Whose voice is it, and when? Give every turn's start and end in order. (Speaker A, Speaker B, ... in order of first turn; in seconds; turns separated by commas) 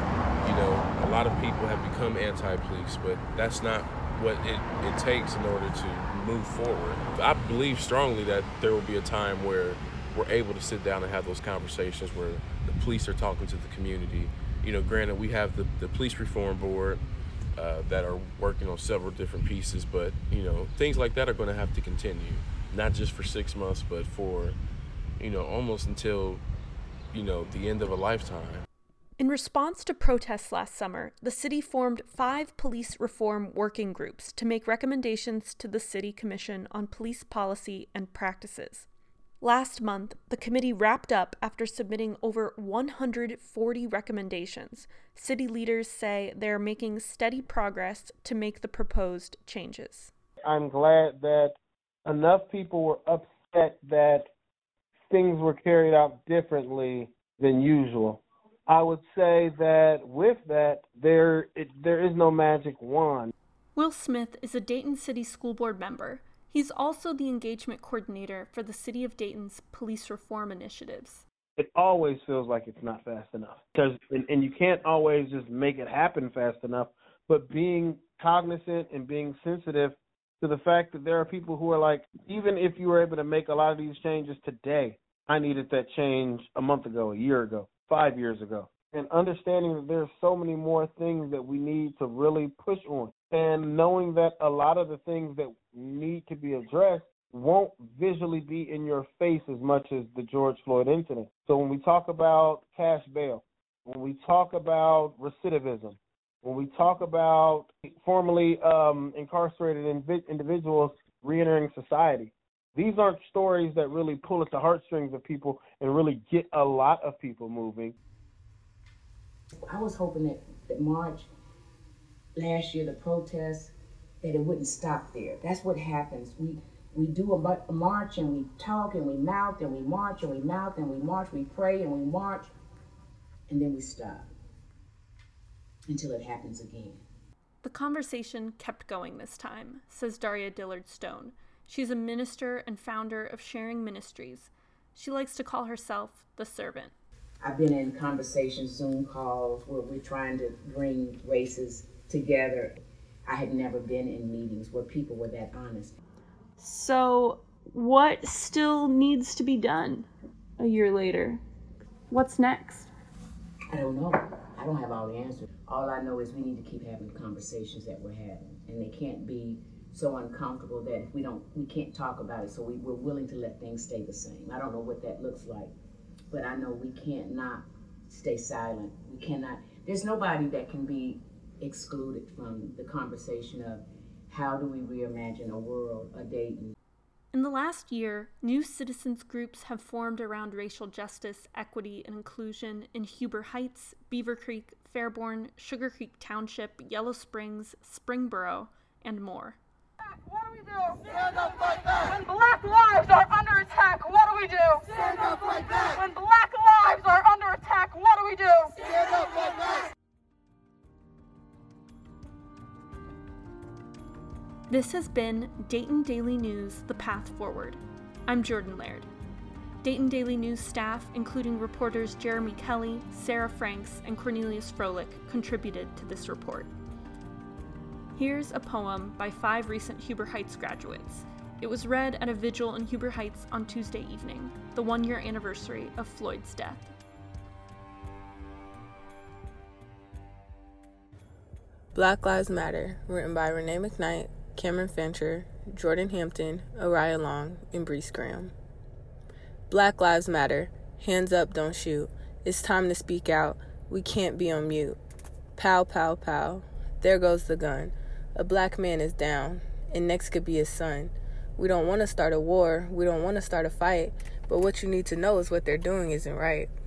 Speaker A: 0.4-17.0, Speaker A: 17.6-24.6, Speaker A: 25.2-26.4, Speaker A: 27.1-28.6, Speaker B: 29.2-38.9, Speaker B: 39.4-50.1, Speaker C: 50.4-54.3, Speaker C: 55.1-63.3, Speaker B: 63.8-71.2, Speaker C: 71.6-117.9, Speaker D: 119.6-121.3, Speaker D: 122.4-132.5, Speaker D: 133.5-134.3, Speaker D: 135.9-137.0, Speaker B: 137.6-146.9, Speaker D: 147.4-156.0, Speaker B: 156.6-160.1, Speaker B: 160.6-161.4, Speaker B: 162.1-162.9, Speaker D: 163.7-175.7, Speaker D: 176.3-186.8, Speaker B: 187.3-199.6, Speaker E: 200.3-201.2, Speaker E: 202.1-204.8, Speaker E: 205.6-208.7, Speaker B: 214.7-219.1, Speaker B: 219.8-226.7, Speaker B: 228.1-236.9, Speaker F: 241.9-248.5, Speaker F: 249.7-255.0, Speaker F: 255.6-266.7